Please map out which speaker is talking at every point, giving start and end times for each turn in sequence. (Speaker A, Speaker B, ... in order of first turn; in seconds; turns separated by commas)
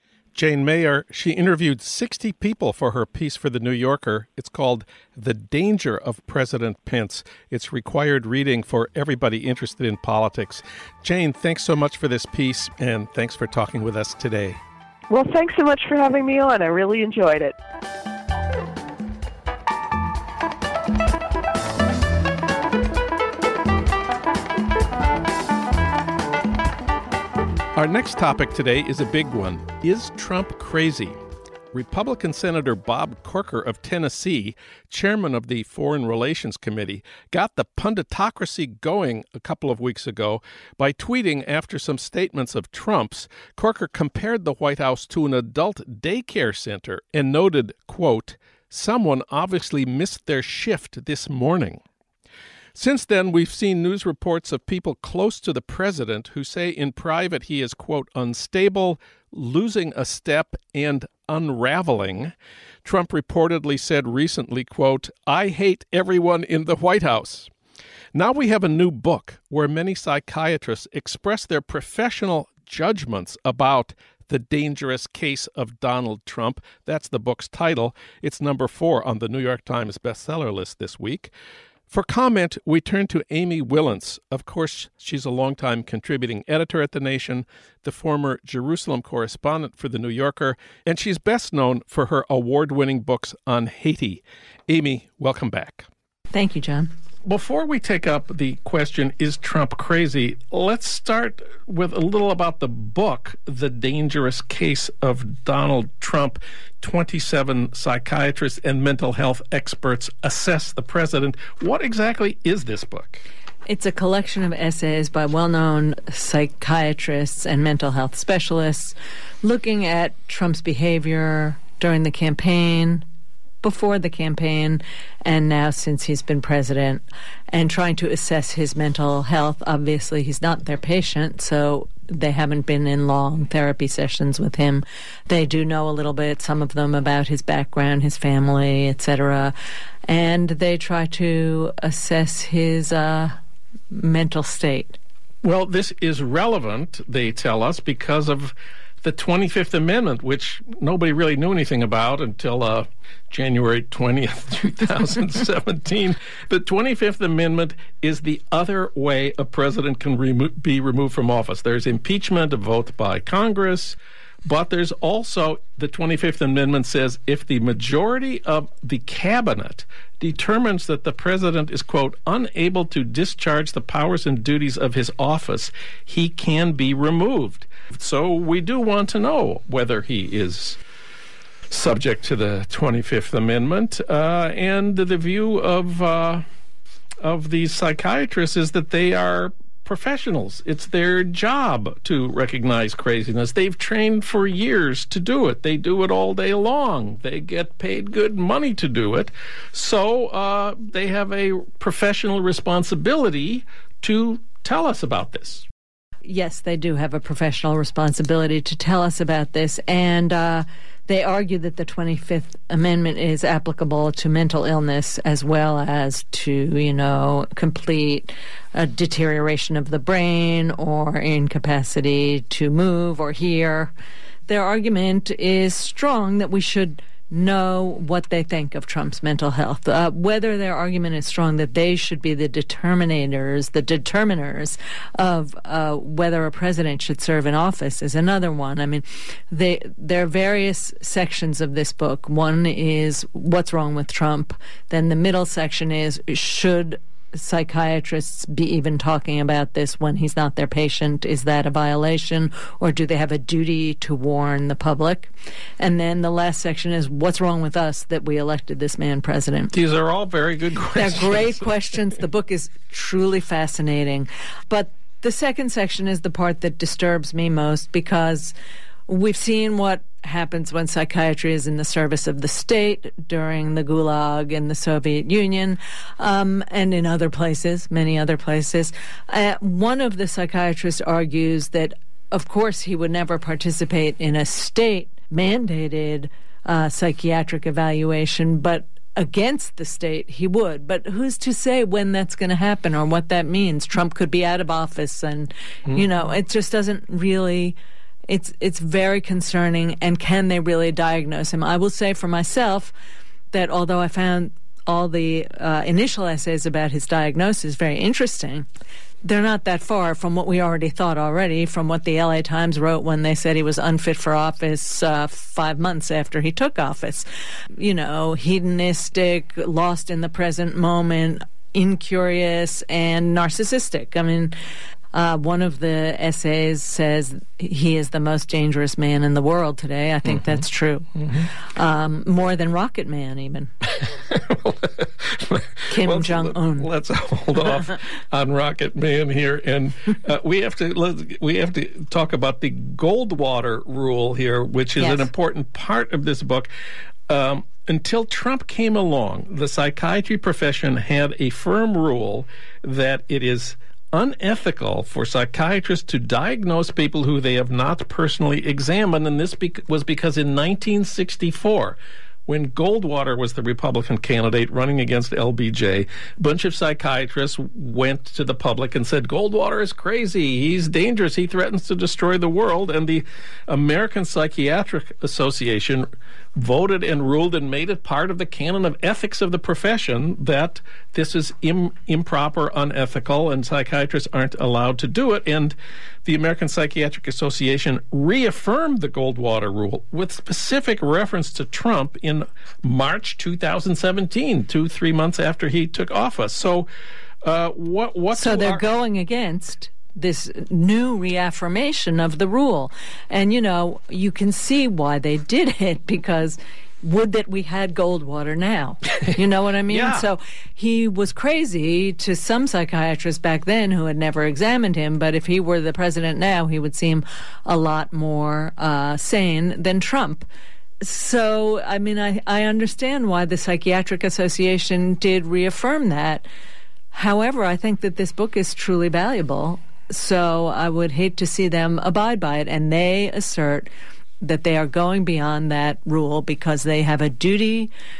Speaker A: 0.3-14.6, Speaker B: 15.1-17.6, Speaker A: 27.8-31.2, Speaker A: 31.7-51.8, Speaker A: 52.8-62.3, Speaker A: 62.9-67.5, Speaker A: 68.1-81.3, Speaker A: 81.9-95.9, Speaker C: 96.3-96.9, Speaker A: 97.2-113.2, Speaker C: 113.7-123.0, Speaker C: 123.6-139.5, Speaker C: 140.1-143.4, Speaker C: 143.9-145.0, Speaker A: 145.4-180.8, Speaker A: 181.7-186.4, Speaker A: 187.2-205.7, Speaker C: 206.2-223.9, Speaker C: 224.5-259.7, Speaker A: 259.7-261.7, Speaker C: 260.9-268.5, Speaker C: 269.1-297.8, Speaker C: 298.3-302.9, Speaker C: 303.5-308.7, Speaker C: 309.2-324.6, Speaker C: 325.1-333.7, Speaker A: 330.2-330.6, Speaker A: 331.2-331.5, Speaker A: 333.9-346.7, Speaker C: 335.9-336.9, Speaker C: 345.0-345.3, Speaker A: 347.3-396.9, Speaker A: 397.4-398.8, Speaker C: 398.4-420.5, Speaker A: 409.9-410.3, Speaker C: 421.0-426.5, Speaker C: 427.1-433.9, Speaker C: 434.4-437.9